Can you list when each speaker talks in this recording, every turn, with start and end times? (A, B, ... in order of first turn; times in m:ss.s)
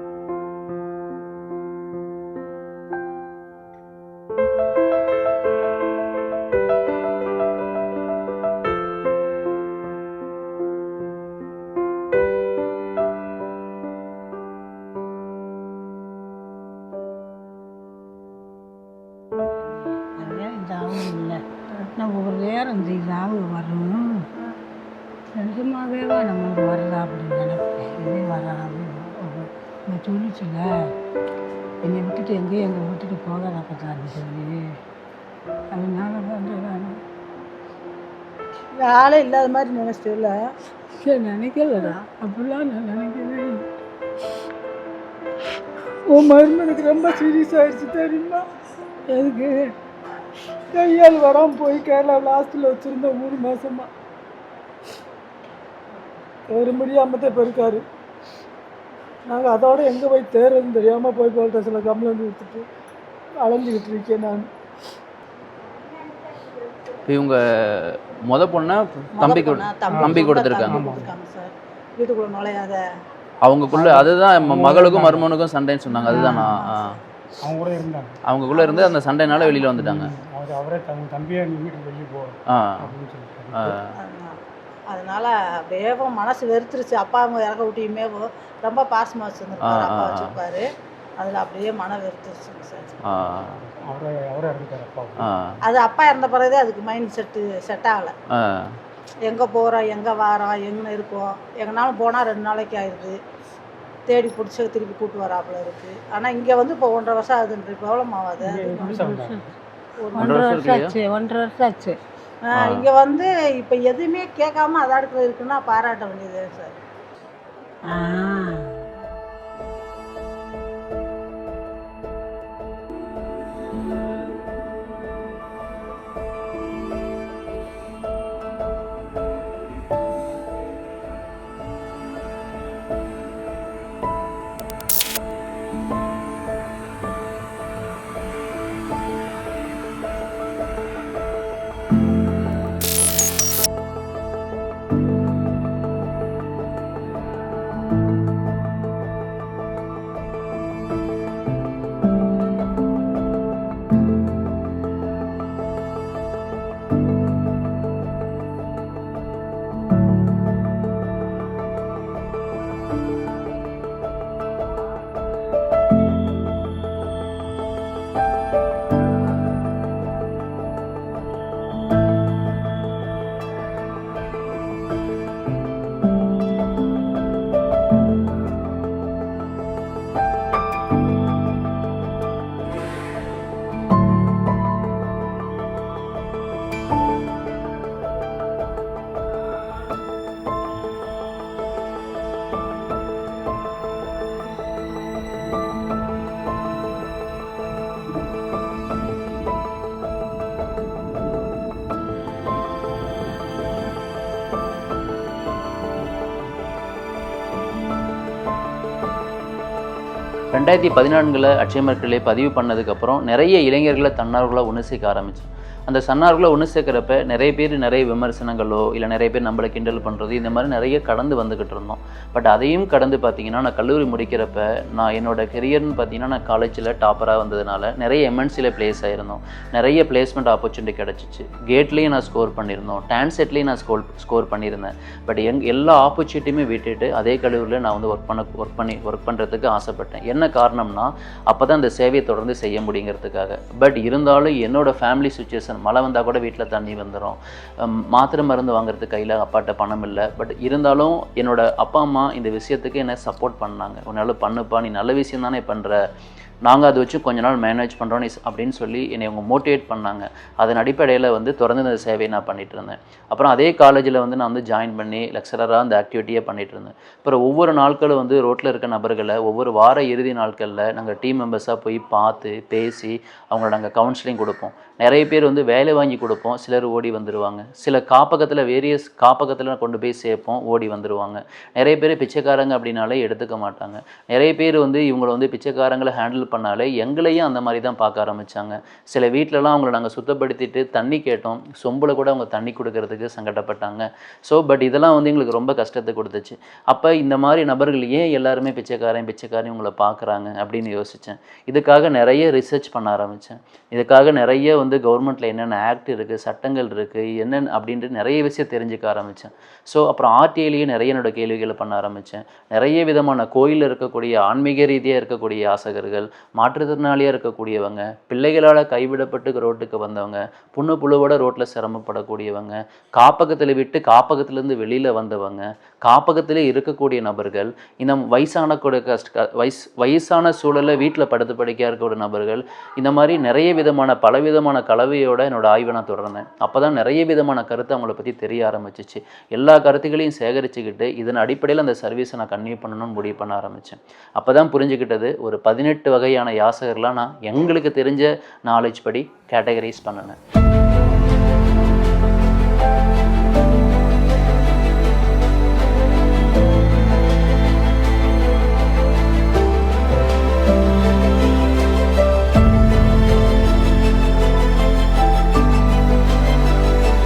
0:19.6-0:24.3 A
0:25.4-0:30.7 A
0:31.8-0:34.8 A
0:35.7-0:37.0 A
0:38.8-0:40.3 B
0:40.9-0:43.6 A
0:46.1-0:48.4 A
0:49.1-0:49.7 A
0:50.7-0:53.9 A
0:56.5-0:57.8 A
0:57.1-0:57.8 C
0:59.3-1:02.6 A
1:03.4-1:04.5 A
1:07.1-1:10.9 D
1:09.1-1:12.8 B
1:09.9-1:11.1 C
1:13.4-1:17.0 D
1:13.7-1:15.3 C
1:16.1-1:16.4 C
1:16.1-1:16.4 A
1:16.1-1:16.9 B
1:17.4-1:18.2 C
1:18.3-1:20.1 D
1:18.6-1:18.8 B
1:19.7-1:23.8 C
1:22.5-1:22.9 D
1:23.5-1:23.9 D
1:24.0-1:24.4 B
1:24.9-1:30.6 B
1:29.6-1:30.4 D
1:31.2-1:32.9 B
1:33.0-1:33.6 D
1:33.7-1:35.3 C
1:35.2-1:35.6 D
1:35.6-1:38.1 B
1:38.3-1:38.8 D
1:39.2-1:43.2 B
1:44.1-1:49.2 B
1:48.4-1:49.5 C
1:48.8-1:49.4 A
1:50.0-1:50.3 B
1:50.1-1:52.0 A
1:50.2-1:50.9 D
1:52.4-1:56.8 B
1:52.6-1:52.9 D
1:57.9-1:58.8 A
3:30.5-4:16.0 D
4:16.7-5:50.4 D